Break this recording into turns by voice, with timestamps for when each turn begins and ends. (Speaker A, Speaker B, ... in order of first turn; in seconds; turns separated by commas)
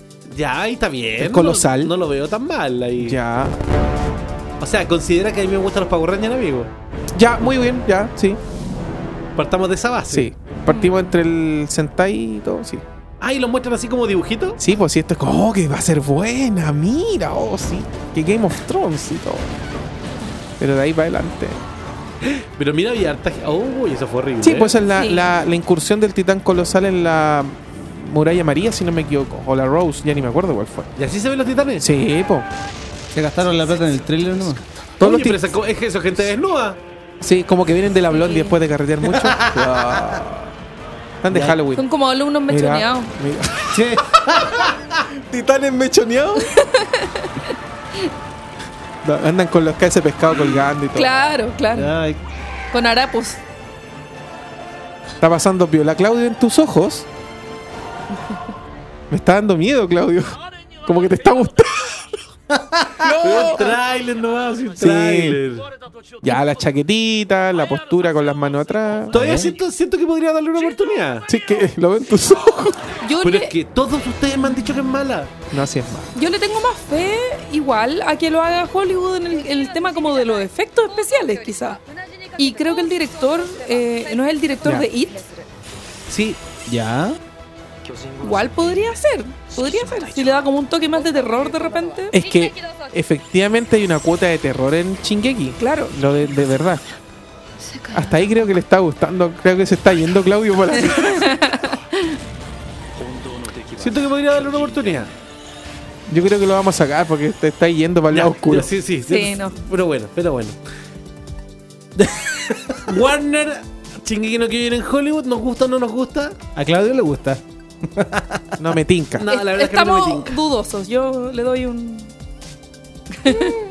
Speaker A: 0.3-3.2, Speaker B: 1.2-1.9, Speaker B: 3.0-3.5, Speaker A: 4.6-6.7, Speaker B: 7.1-8.4, Speaker A: 9.4-10.3, Speaker B: 10.1-12.8, Speaker C: 10.7-11.0, Speaker A: 13.2-14.6, Speaker B: 14.6-19.5, Speaker B: 20.6-21.6, Speaker A: 22.2-24.8, Speaker B: 24.4-30.9, Speaker C: 24.9-25.3, Speaker A: 31.0-31.9, Speaker B: 31.8-32.5, Speaker D: 33.1-34.6, Speaker B: 35.0-35.4, Speaker A: 35.0-36.8, Speaker B: 37.2-40.5, Speaker C: 38.1-38.5, Speaker B: 41.2-41.9, Speaker D: 41.3-41.6, Speaker C: 41.7-43.1, Speaker B: 42.5-43.8, Speaker D: 43.7-44.7, Speaker B: 45.3-46.5, Speaker C: 46.4-47.4, Speaker B: 49.0-51.1, Speaker C: 50.9-51.9, Speaker D: 51.7-52.2, Speaker C: 52.7-53.4, Speaker B: 55.2-57.1, Speaker B: 59.1-60.3, Speaker B: 60.8-62.1, Speaker B: 63.0-63.8, Speaker A: 63.1-65.7, Speaker B: 64.8-65.4, Speaker B: 66.2-69.2, Speaker D: 69.1-69.5, Speaker A: 69.1-71.3, Speaker B: 71.3-72.9, Speaker C: 73.0-73.5, Speaker A: 73.2-75.3, Speaker B: 75.5-76.1, Speaker C: 76.1-81.8, Speaker C: 82.3-85.2, Speaker A: 86.1-86.4, Speaker D: 86.7-87.2, Speaker C: 88.2-92.1, Speaker B: 92.1-96.8, Speaker C: 95.6-95.9, Speaker B: 97.9-101.5, Speaker C: 100.7-102.0, Speaker A: 103.8-105.1, Speaker B: 106.1-108.7, Speaker A: 108.1-110.5, Speaker C: 109.1-109.5, Speaker A: 112.8-116.4, Speaker D: 116.5-118.5, Speaker B: 118.6-119.2, Speaker A: 119.2-120.4, Speaker C: 119.2-122.1, Speaker C: 123.2-123.5